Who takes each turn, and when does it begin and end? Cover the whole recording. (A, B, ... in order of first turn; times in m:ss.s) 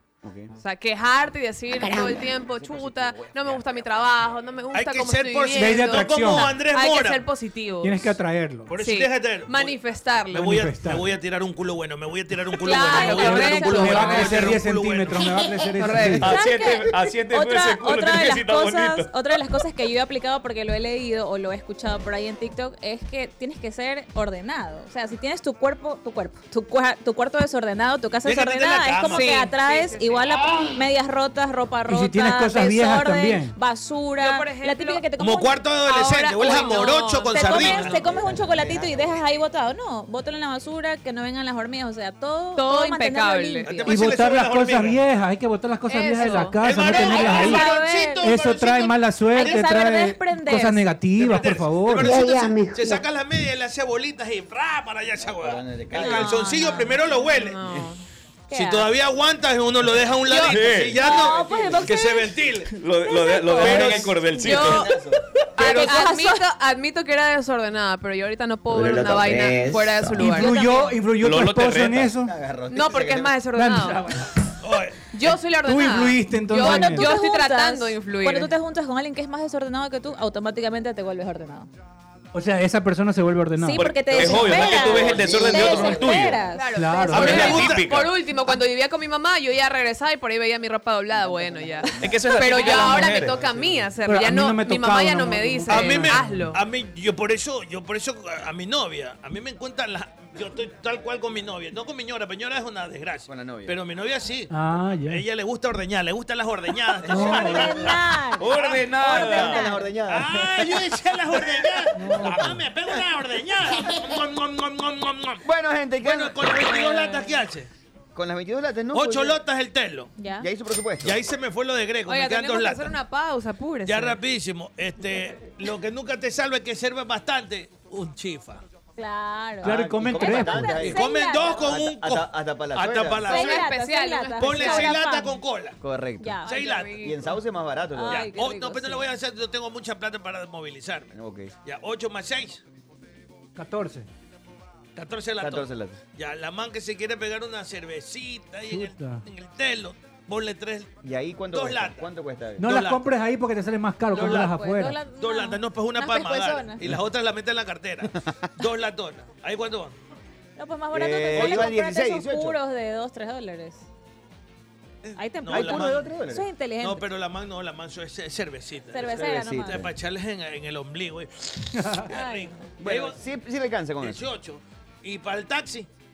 0:00.2-0:00.5 A
0:00.6-0:08.1 B
0:02.2-0:04.1 A
0:04.7-0:07.2 C
0:05.5-0:06.5 D
0:07.8-0:08.7 D
0:08.7-0:09.8 C
0:08.7-0:10.6 B
0:10.3-0:11.1 D
0:10.3-0:15.4 C
0:12.6-0:14.5 B
0:12.9-0:14.1 E
0:13.0-0:16.4 D
0:16.0-0:19.1 F
0:16.2-0:35.6 E
0:28.2-0:29.5 C
0:29.1-0:30.4 B
0:31.9-0:33.6 D
0:34.2-0:35.1 B
0:35.2-0:38.1 C
0:35.8-0:38.0 B
0:36.6-0:43.8 E
0:37.9-0:39.2 A
0:42.6-0:43.9 B
0:43.6-0:45.0 C
0:43.8-0:52.2 D
0:45.9-0:47.4 B
0:46.2-0:49.7 C
0:46.9-0:48.4 E
0:49.3-0:50.8 E
0:51.2-0:57.8 C
0:55.2-0:56.3 A
0:56.0-0:56.8 E
0:56.0-0:58.0 B
0:58.5-0:58.9 E
0:58.5-1:02.8 C
1:00.2-1:00.5 B
1:00.4-1:01.0 F
1:01.0-1:02.3 E
1:01.2-1:02.0 A
1:02.7-1:05.0 F
1:03.0-1:04.2 E
1:03.6-1:04.5 C
1:03.7-1:04.0 A
1:04.4-1:04.9 B
1:04.7-1:05.2 A
1:05.5-1:10.5 B
1:05.6-1:06.4 E
1:08.7-1:10.0 A
1:10.2-1:12.3 D
1:10.2-1:11.0 E
1:11.2-1:12.1 F
1:12.2-1:13.4 A
1:12.7-1:14.0 B
1:13.5-1:14.3 D
1:14.6-1:15.0 C
1:15.1-1:18.5 B
1:15.5-1:17.1 D
1:16.6-1:21.7 E
1:22.3-1:24.1 D
1:23.6-1:27.4 E
1:23.7-1:26.4 F
1:24.6-1:26.0 B
1:26.5-1:36.6 B
1:26.7-1:27.7 D
1:27.1-1:28.1 F
1:27.1-1:27.8 C
1:32.0-1:33.4 F
1:32.6-1:33.7 C
1:34.0-1:36.5 D
1:35.7-1:44.5 C
1:43.3-1:43.8 A
1:44.5-1:45.2 D
1:45.1-1:49.4 C
1:47.1-1:47.8 D
1:47.1-1:49.9 E
1:47.1-1:47.7 A
1:48.4-1:49.6 F
1:49.3-1:50.9 A
1:50.0-1:55.4 C
1:51.9-1:52.6 D
1:55.4-1:56.6 A
1:56.0-1:57.7 C
1:56.8-1:57.2 E
1:58.1-1:59.4 A
1:58.9-2:00.1 C
2:00.2-2:00.5 E
2:00.4-2:01.2 A
2:01.0-2:02.9 C
2:02.0-2:04.2 B
2:03.9-2:08.6 C
2:09.0-2:11.7 E
2:09.6-2:10.9 D
2:09.6-2:13.4 A
2:10.9-2:13.7 C
2:13.2-2:14.9 B
2:13.3-2:15.4 E
2:14.4-2:15.8 C
2:15.8-2:16.4 A
2:16.2-2:16.5 E
2:16.4-2:17.1 C
2:16.4-2:17.3 B
2:17.0-2:18.3 A
2:17.9-2:19.0 E
2:18.1-2:21.1 C
2:21.1-2:21.5 A
2:21.6-2:22.6 C
2:23.6-2:24.1 D
2:24.9-2:30.9 C
2:25.4-2:26.0 A
2:28.7-2:29.2 D
2:31.0-2:32.7 A
2:31.5-2:32.1 C
2:32.6-2:35.0 D
2:32.6-2:33.0 C
2:34.1-2:36.9 E
2:34.2-2:34.5 C
2:35.1-2:39.9 C
2:40.6-2:43.8 E
2:40.9-2:42.6 A
2:45.0-2:46.1 C
2:45.2-2:47.1 E
2:45.4-2:46.5 A
2:46.8-2:53.2 C
2:48.9-2:49.8 E
2:49.1-2:49.9 A
2:51.8-2:52.1 D
2:52.1-2:52.7 E
2:52.8-2:54.2 A
2:54.0-2:55.9 C